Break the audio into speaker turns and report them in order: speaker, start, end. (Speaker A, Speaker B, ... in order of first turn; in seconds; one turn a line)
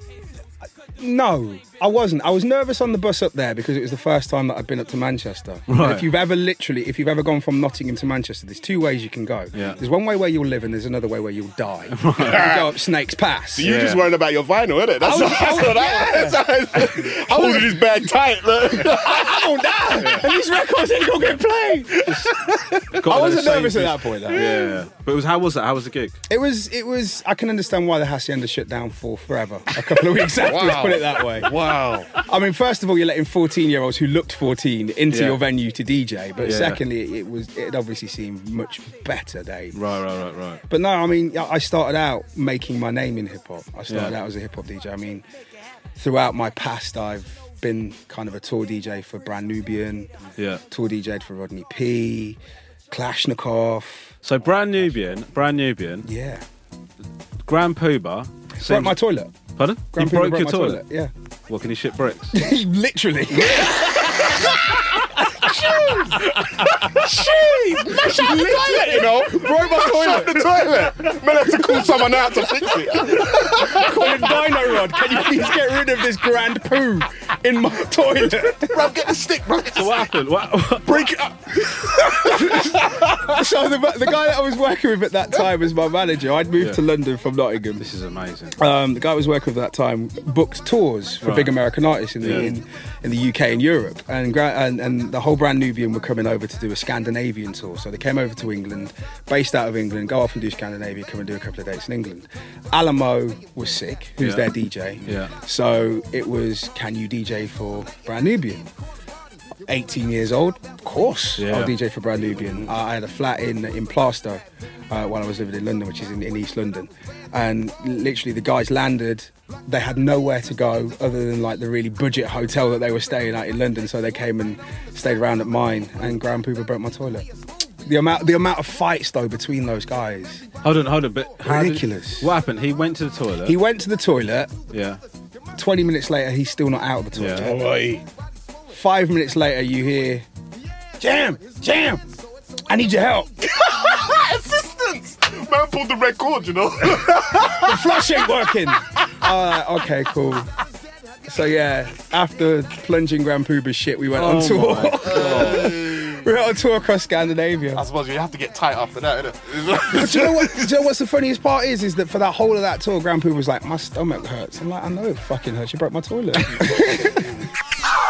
Speaker A: 1.0-13.7
Speaker B: 5.7-6.0
Speaker B: 11.9-12.5
Speaker C: 12.2-12.7
Speaker C: 13.5-19.4
Speaker B: 13.6-14.0
Speaker A: 15.0-17.8
Speaker A: 18.8-22.1
Speaker B: 20.0-20.2
Speaker B: 22.0-22.4
Speaker C: 22.4-22.9
Speaker B: 22.9-26.2
Speaker A: 23.0-24.6
Speaker C: 24.3-24.8
Speaker A: 26.3-31.6
Speaker C: 30.3-32.1
Speaker A: 32.1-39.8
Speaker B: 35.1-35.4
Speaker B: 36.4-36.8
Speaker B: 39.7-40.6
Speaker A: 40.7-45.2
Speaker B: 43.9-44.1
Speaker A: 46.0-50.2
Speaker B: 50.4-50.6
Speaker A: 50.7-52.4
Speaker A: 52.9-54.1
Speaker B: 54.2-56.1
Speaker A: 56.0-56.4
Speaker B: 57.4-59.0
Speaker A: 58.6-59.3
Speaker B: 59.6-60.8
Speaker A: 59.9-61.1
Speaker B: 61.5-62.4
Speaker A: 62.3-71.8
Speaker C: 63.4-64.4
Speaker C: 65.3-74.5
Speaker A: 72.8-78.9
Speaker C: 78.5-80.1
Speaker B: 79.7-81.0
Speaker C: 80.8-83.3
Speaker A: 81.8-87.8
Speaker B: 87.8-88.5
Speaker A: 88.6-108.7
Speaker B: 91.2-91.5
Speaker B: 92.2-92.5
Speaker B: 105.0-105.3
Speaker A: 109.7-127.3
Speaker B: 111.4-111.7
Speaker A: 127.8-130.5
Speaker B: 130.6-133.6
Speaker A: 131.4-132.3
Speaker A: 133.4-134.6
Speaker B: 134.7-135.0
Speaker A: 135.5-137.7
Speaker B: 137.1-137.5
Speaker C: 137.4-138.0
Speaker A: 138.7-140.2
Speaker A: 141.0-142.0
Speaker A: 142.7-143.4
Speaker C: 143.4-148.0
Speaker A: 147.4-150.5
Speaker A: 151.2-157.8
Speaker B: 154.1-155.8
Speaker C: 155.1-156.2
Speaker C: 157.7-160.7
Speaker A: 159.8-167.4